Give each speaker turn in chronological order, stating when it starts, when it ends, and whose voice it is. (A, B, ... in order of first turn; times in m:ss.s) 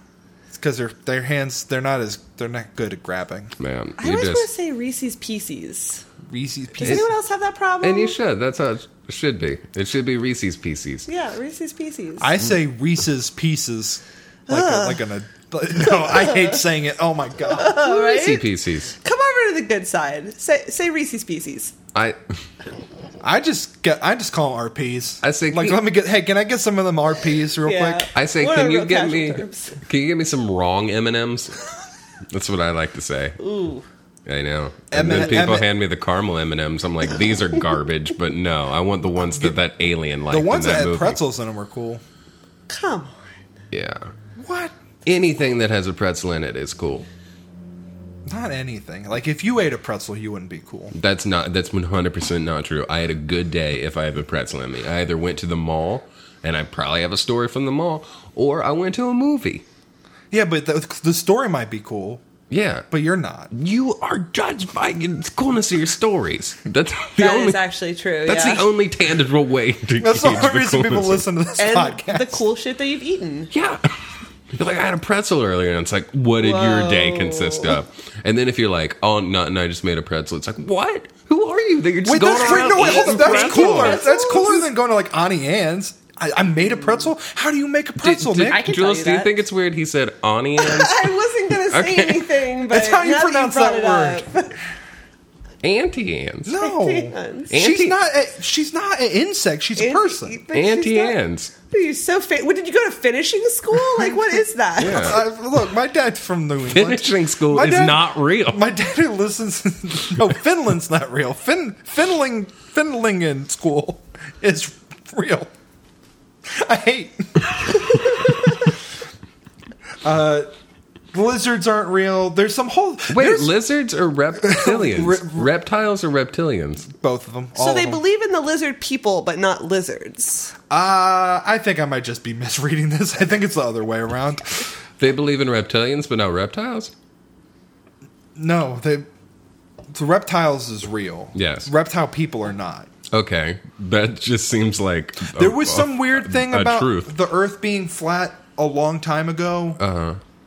0:00.5-0:03.5 A
0:03.6-0:04.5 B
0:04.0-0:06.0 C
0:06.3-0:07.0 A
0:06.8-0:08.1 C
0:07.8-0:11.1 B
0:11.1-0:12.3 C
0:12.2-0:17.8 A
0:14.5-0:15.0 C
0:15.8-0:16.6 C
0:17.5-0:18.4 C
0:17.8-0:18.9 B
0:19.0-0:21.7 C
0:23.2-0:28.1 A
0:25.2-0:25.8 B
0:27.6-0:29.8 C
0:28.1-0:31.6 B
0:32.3-0:33.4 B
0:33.4-0:33.8 C
0:34.2-0:41.2 B
0:34.9-0:35.7 A
0:35.0-0:35.3 C
0:39.2-0:39.5 A
0:40.3-0:42.0 A
0:42.7-0:43.3 C
0:43.7-0:44.1 B
0:44.4-0:44.7 A
0:45.0-0:47.1 B
0:48.2-0:50.9 A
0:50.9-0:59.6 B
1:00.3-1:02.2 A
1:02.5-1:02.8 B
1:02.9-1:03.5 A
1:03.5-1:07.6 B
1:07.2-1:08.6 C
1:08.2-1:11.2 B
1:10.0-1:12.4 A
1:11.6-1:13.5 C
1:13.5-1:13.9 B
1:14.5-1:24.0 B
1:16.4-1:17.8 C
1:22.0-1:28.6 A
1:22.2-1:24.6 C
1:28.0-1:31.1 B
1:28.4-1:29.4 C
1:30.6-1:34.6 C
1:31.7-1:32.3 B
1:32.7-1:34.2 A
1:35.6-1:36.5 B
1:36.4-1:40.4 A
1:36.6-1:37.5 C
1:37.5-1:38.0 B
1:39.8-1:41.1 C
1:40.5-1:41.5 B
1:41.7-1:45.2 C
1:44.8-1:45.2 B
1:44.9-1:55.5 A
1:46.7-1:48.6 B
1:56.5-1:58.5 A
2:00.0-2:00.5 A
2:01.1-2:03.5 A
2:03.1-2:06.9 B
2:04.4-2:05.5 A
2:06.9-2:08.0 A
2:07.6-2:10.5 C
2:10.7-2:14.7 A
2:15.0-2:16.9 B
2:18.4-2:19.1 A
2:19.9-2:22.9 A
2:21.3-2:21.7 B
2:23.1-2:27.1 B
2:25.3-2:29.8 A
2:29.8-2:30.2 B